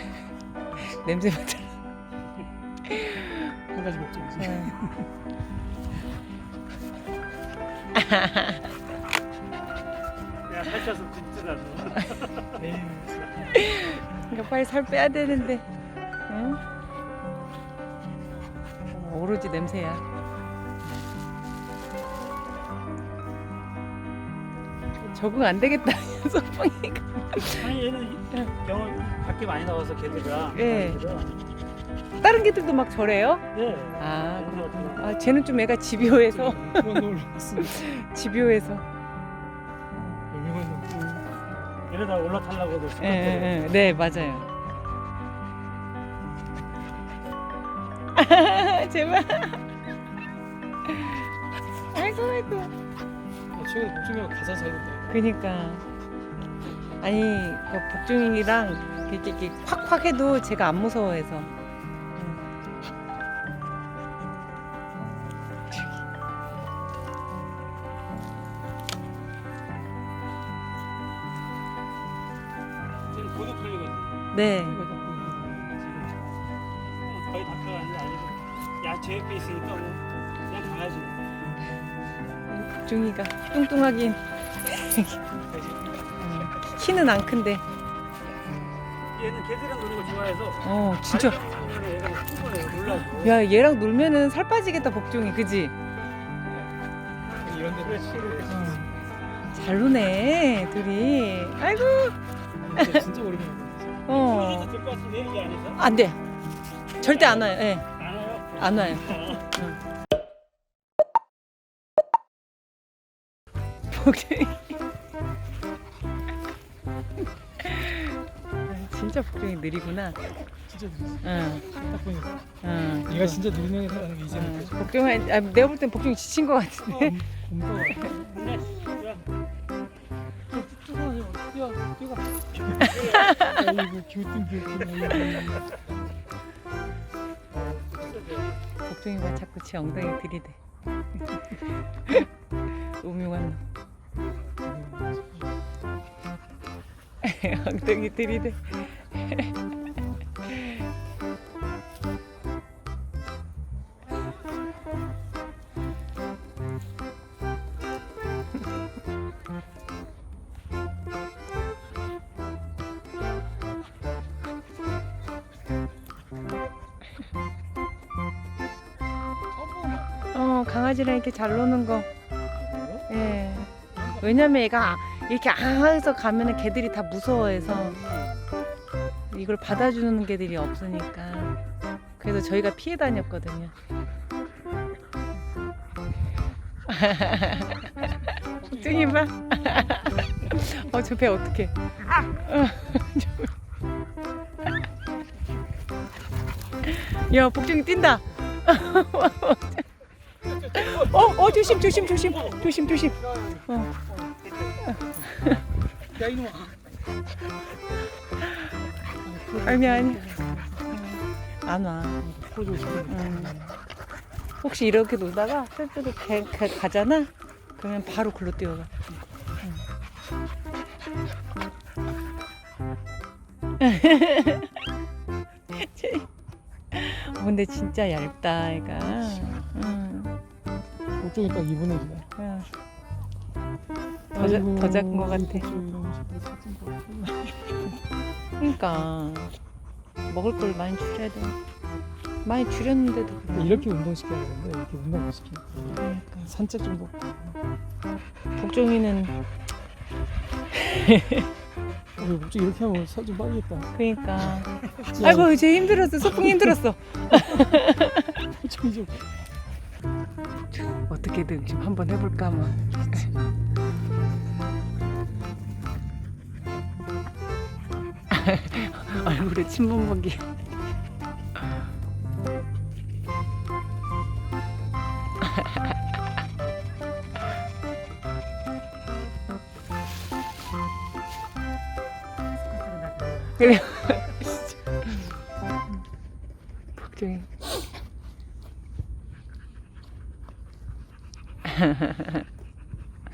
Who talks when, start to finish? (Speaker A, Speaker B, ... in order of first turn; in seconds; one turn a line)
Speaker A: 0.8-1.8
Speaker A: 2.9-3.6
Speaker B: 3.7-5.1
Speaker A: 4.4-4.7
Speaker A: 7.9-8.6
Speaker C: 10.5-12.6
Speaker B: 12.6-13.6
Speaker A: 13.5-15.6
Speaker A: 16.3-16.6
Speaker A: 18.9-20.0
Speaker A: 25.0-27.7
Speaker C: 27.6-31.3
Speaker A: 30.5-31.0
Speaker A: 32.2-33.4
Speaker C: 33.5-35.2
Speaker A: 34.0-38.9
Speaker B: 36.0-37.8
Speaker B: 40.3-41.1
Speaker C: 41.9-43.8
Speaker A: 43.0-44.5
Speaker A: 48.1-49.6
Speaker A: 50.8-51.3
Speaker A: 51.9-52.7
Speaker B: 53.5-55.1
Speaker A: 55.1-55.8
Speaker A: 57.0-61.5
Speaker A: 62.2-62.4
Speaker C: 73.1-74.2
Speaker A: 74.3-74.8
Speaker B: 74.6-76.4
Speaker C: 77.0-81.2
Speaker A: 82.5-85.2
Speaker A: 86.2-87.6
Speaker C: 89.1-93.5
Speaker A: 90.6-91.4
Speaker A: 93.2-95.7
Speaker B: 97.3-98.8
Speaker C: 97.7-98.8
Speaker A: 98.5-98.9
Speaker A: 99.5-102.2
Speaker B: 102.6-104.0
Speaker A: 102.8-103.0
Speaker A: 104.1-104.7
Speaker C: 104.1-105.8
Speaker A: 105.8-106.2
Speaker A: 107.0-107.9
Speaker C: 107.0-109.5
Speaker A: 108.6-109.8
Speaker A: 113.9-114.7
Speaker A: 117.6-120.2
Speaker B: 120.7-122.4
Speaker A: 121.2-121.7
Speaker A: 122.6-123.4
Speaker B: 123.0-124.8
Speaker A: 124.3-127.2
Speaker B: 126.8-128.2
Speaker C: 128.1-129.2
Speaker B: 130.5-135.8
Speaker C: 132.8-133.4
Speaker A: 133.1-133.5
Speaker C: 137.6-138.6
Speaker A: 138.8-140.6
Speaker A: 142.9-143.6
Speaker B: 144.6-145.4
Speaker A: 147.2-149.5
Speaker A: 150.5-150.8
Speaker B: 169.6-170.2
Speaker A: 170.3-172.1
Speaker B: 172.5-173.1
Speaker A: 173.1-178.0
Speaker A: 179.3-181.6
Speaker A: 182.2-183.7
Speaker A: 186.9-193.5
Speaker B: 188.6-189.2
Speaker A: 196.8-199.8
Speaker A: 200.5-203.9
Speaker B: 200.8-202.0
Speaker C: 204.3-204.7
Speaker A: 204.9-205.6
Speaker B: 206.1-206.7
Speaker B: 209.2-210.9
Speaker A: 209.6-210.3
Speaker A: 210.9-212.2
Speaker B: 212.2-213.8
Speaker A: 213.1-213.6
Speaker A: 214.6-218.9
Speaker A: 223.8-224.7
Speaker A: 225.7-226.3
Speaker A: 226.9-230.3
Speaker B: 231.2-232.3
Speaker A: 232.3-232.7
Speaker B: 234.3-238.0
Speaker A: 234.3-235.7
Speaker A: 238.6-239.6
Speaker A: 240.3-241.6
Speaker A: 242.4-243.9
Speaker B: 243.5-247.6
Speaker A: 246.0-246.5
Speaker A: 248.6-249.4
Speaker A: 250.7-251.5
Speaker B: 252.2-257.8
Speaker A: 253.9-258.4
Speaker B: 258.5-259.3
Speaker A: 260.8-263.3
Speaker A: 268.3-270.4
Speaker C: 282.8-283.5
Speaker A: 283.6-284.8
Speaker A: 287.0-287.8
Speaker A: 291.7-292.4